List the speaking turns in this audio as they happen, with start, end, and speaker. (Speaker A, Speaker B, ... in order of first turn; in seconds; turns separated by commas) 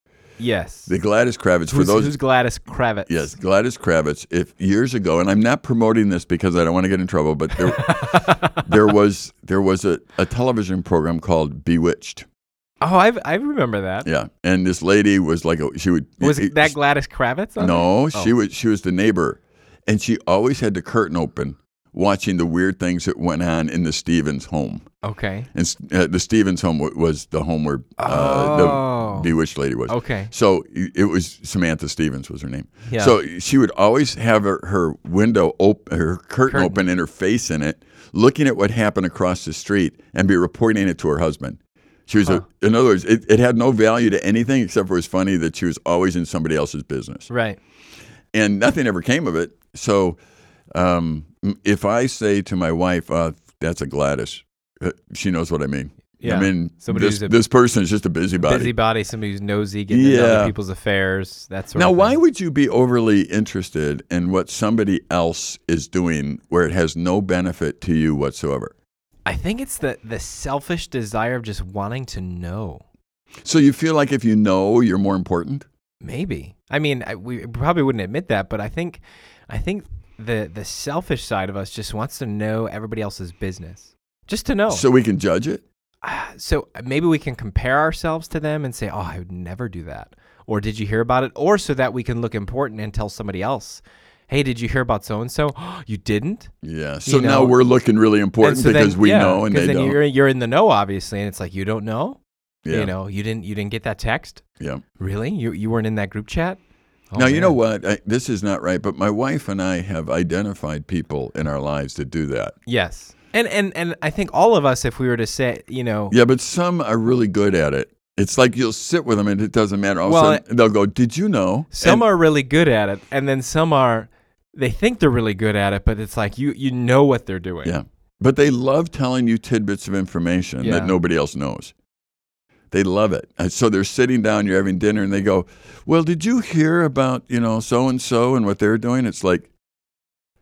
Speaker A: 0.4-0.9, Speaker B: 0.9-2.1, Speaker A: 1.7-3.3, Speaker B: 3.1-12.2, Speaker A: 7.6-8.9, Speaker A: 12.8-14.1, Speaker B: 14.0-16.7, Speaker A: 16.2-18.3, Speaker B: 17.6-24.8, Speaker A: 25.0-25.5, Speaker B: 25.5-47.3, Speaker A: 28.0-29.3, Speaker A: 29.9-30.3, Speaker A: 32.9-33.1, Speaker A: 36.5-36.8, Speaker A: 47.3-47.6, Speaker B: 48.3-50.2, Speaker B: 50.7-58.7, Speaker A: 56.2-57.3, Speaker A: 58.4-62.1, Speaker B: 59.9-60.5, Speaker B: 61.8-68.7, Speaker A: 69.2-72.8, Speaker B: 73.4-75.7, Speaker A: 76.0-84.8, Speaker B: 84.7-85.6, Speaker A: 86.0-96.5, Speaker B: 96.6-100.0, Speaker A: 97.0-97.5, Speaker A: 98.4-104.4, Speaker B: 102.6-102.9, Speaker A: 105.0-106.6, Speaker A: 107.1-107.6, Speaker B: 107.2-112.5, Speaker A: 112.7-116.1, Speaker B: 116.1-122.0, Speaker A: 120.0-120.4, Speaker A: 121.7-127.7, Speaker B: 127.6-131.7, Speaker A: 130.6-130.9, Speaker B: 132.7-139.5